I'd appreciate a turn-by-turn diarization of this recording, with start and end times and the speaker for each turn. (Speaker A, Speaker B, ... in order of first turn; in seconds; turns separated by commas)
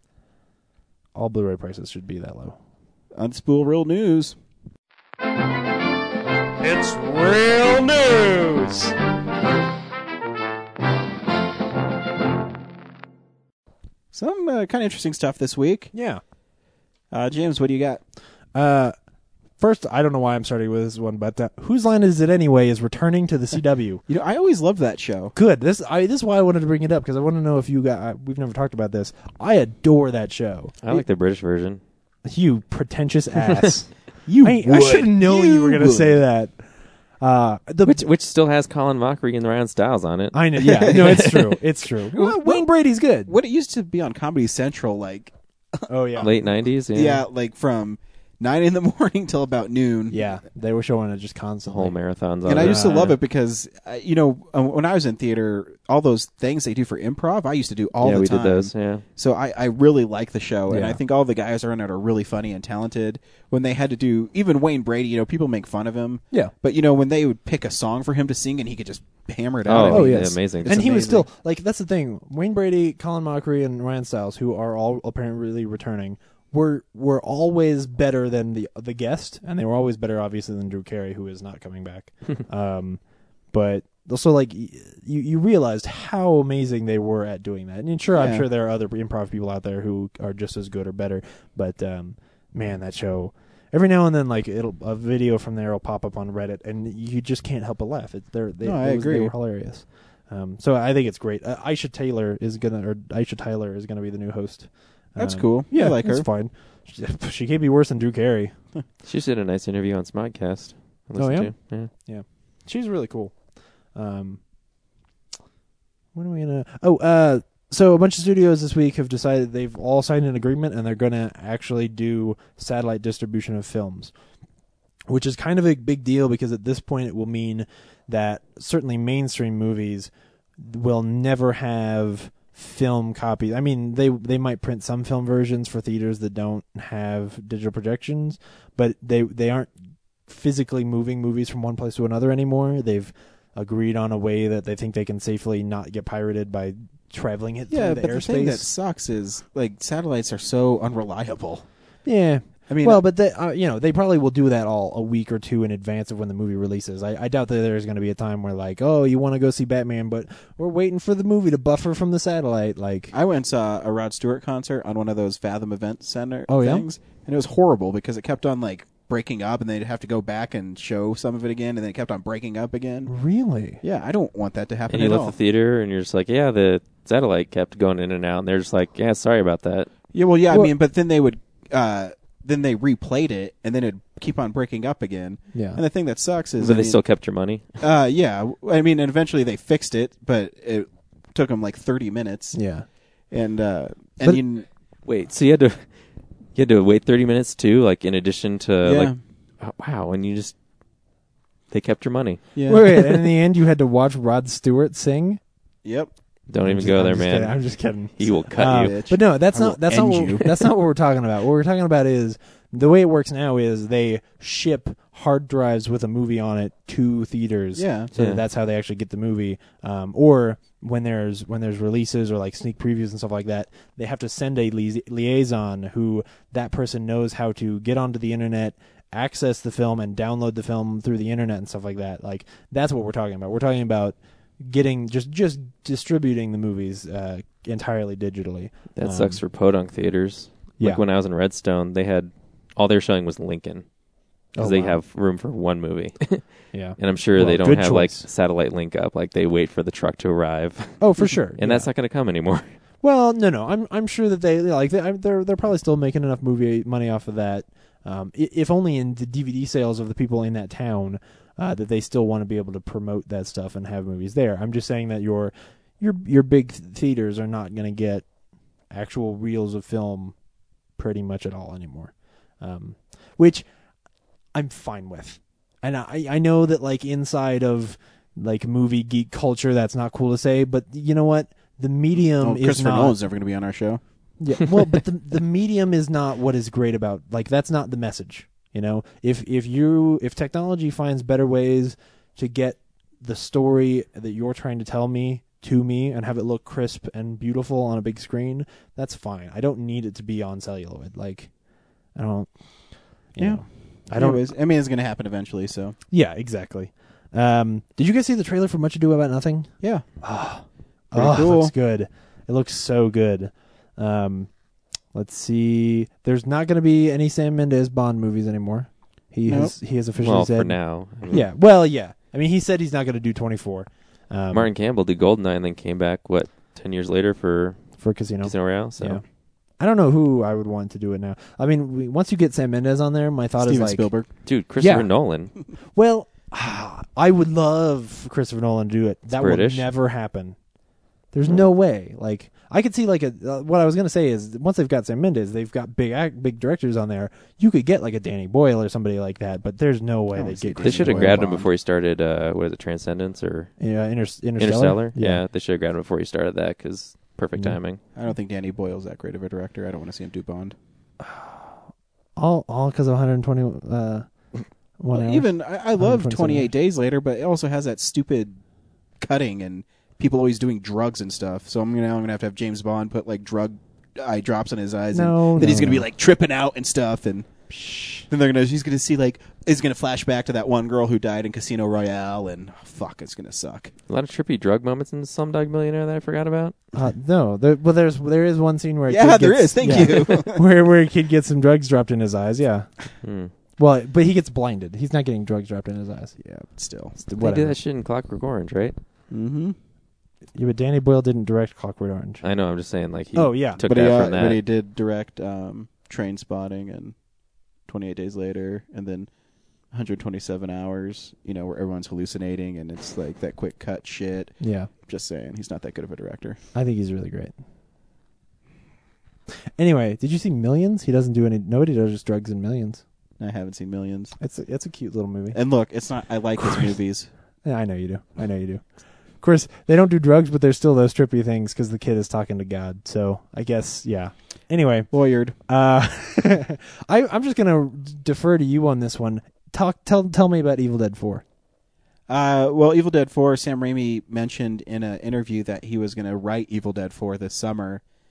Speaker A: 1.1-2.6, Speaker B: 3.1-4.4, Speaker C: 6.7-8.7, Speaker B: 14.1-15.9, Speaker A: 15.9-16.2, Speaker B: 17.1-18.0, Speaker A: 18.5-18.9, Speaker A: 19.6-24.0, Speaker B: 24.1-25.3, Speaker A: 25.3-30.7, Speaker D: 30.8-31.8, Speaker A: 32.2-36.6, Speaker B: 34.3-36.2, Speaker A: 37.2-38.0, Speaker D: 37.8-41.4, Speaker A: 40.3-43.3, Speaker B: 40.6-41.4, Speaker B: 42.1-42.7, Speaker B: 43.2-46.4, Speaker A: 45.9-46.3, Speaker D: 46.2-47.2, Speaker B: 46.9-50.3, Speaker A: 50.1-51.9, Speaker D: 51.7-53.1, Speaker B: 52.5-71.3, Speaker A: 52.5-53.0, Speaker D: 58.0-59.0, Speaker A: 60.7-61.0, Speaker D: 69.6-70.8, Speaker A: 69.9-83.0, Speaker A: 83.5-108.5, Speaker B: 88.1-88.5, Speaker B: 98.6-99.3, Speaker B: 105.2-106.3, Speaker D: 109.0-111.9, Speaker A: 111.2-113.3, Speaker A: 113.9-114.4, Speaker A: 116.1-124.1, Speaker A: 125.1-139.7, Speaker A: 140.3-148.7, Speaker B: 147.7-151.6, Speaker A: 152.0-163.2, Speaker B: 152.7-153.0, Speaker B: 163.1-173.1, Speaker A: 166.5-166.8, Speaker A: 173.1-173.8, Speaker B: 173.8-175.3, Speaker D: 174.9-179.9, Speaker B: 180.1-187.0, Speaker A: 185.5-185.8, Speaker D: 186.6-187.7, Speaker B: 187.8-192.6, Speaker A: 192.5-192.8, Speaker B: 193.3-194.7, Speaker D: 195.0-195.9, Speaker D: 196.5-200.5, Speaker B: 198.8-199.2, Speaker D: 201.7-202.4, Speaker B: 202.5-203.1, Speaker A: 202.7-205.4, Speaker B: 205.8-206.1, Speaker D: 206.5-209.0, Speaker A: 206.6-239.4, Speaker B: 208.6-210.7, Speaker B: 217.8-218.1, Speaker D: 238.9-243.8, Speaker A: 244.6-245.0, Speaker D: 244.6-246.5, Speaker A: 246.7-248.2, Speaker D: 247.0-252.8, Speaker A: 251.0-251.9, Speaker A: 253.0-268.3, Speaker A: 268.9-270.4, Speaker A: 270.9-273.6, Speaker A: 274.5-283.1, Speaker B: 282.1-284.0, Speaker A: 284.4-301.5, Speaker A: 302.1-304.5, Speaker B: 303.4-306.0, Speaker A: 306.1-314.5, Speaker B: 311.1-311.7, Speaker A: 315.1-324.7, Speaker B: 319.4-319.8, Speaker D: 320.2-321.4, Speaker D: 324.5-327.9, Speaker A: 328.0-329.2, Speaker D: 328.4-329.2, Speaker A: 329.8-334.1, Speaker B: 333.6-334.3, Speaker D: 334.4-335.5, Speaker A: 334.8-335.1, Speaker A: 335.9-340.6, Speaker D: 339.3-339.9, Speaker A: 341.3-351.6, Speaker B: 350.3-351.6, Speaker D: 350.8-353.7, Speaker A: 353.8-355.4, Speaker D: 354.6-358.0, Speaker B: 358.1-360.8, Speaker A: 361.2-361.7, Speaker A: 362.4-364.3, Speaker A: 365.0-366.7, Speaker B: 365.1-368.6, Speaker B: 369.2-377.5, Speaker A: 375.1-376.1, Speaker A: 377.7-378.3, Speaker B: 378.3-383.9, Speaker D: 384.1-386.8, Speaker A: 386.9-392.9, Speaker B: 389.1-390.6, Speaker D: 393.2-393.5, Speaker A: 393.8-396.4, Speaker B: 396.4-397.1, Speaker A: 397.1-397.8, Speaker D: 397.4-398.9, Speaker B: 399.3-399.8, Speaker A: 400.5-402.4, Speaker D: 402.4-404.6, Speaker A: 403.3-403.8, Speaker B: 403.9-407.1, Speaker B: 407.9-409.3, Speaker B: 409.9-416.6, Speaker A: 414.6-414.9, Speaker A: 416.7-417.5, Speaker A: 419.8-423.0, Speaker B: 423.4-424.3, Speaker A: 424.4-425.6, Speaker B: 425.5-427.3, Speaker A: 427.6-428.8, Speaker A: 429.4-435.1, Speaker B: 435.1-435.6, Speaker A: 435.7-441.4, Speaker B: 442.3-448.0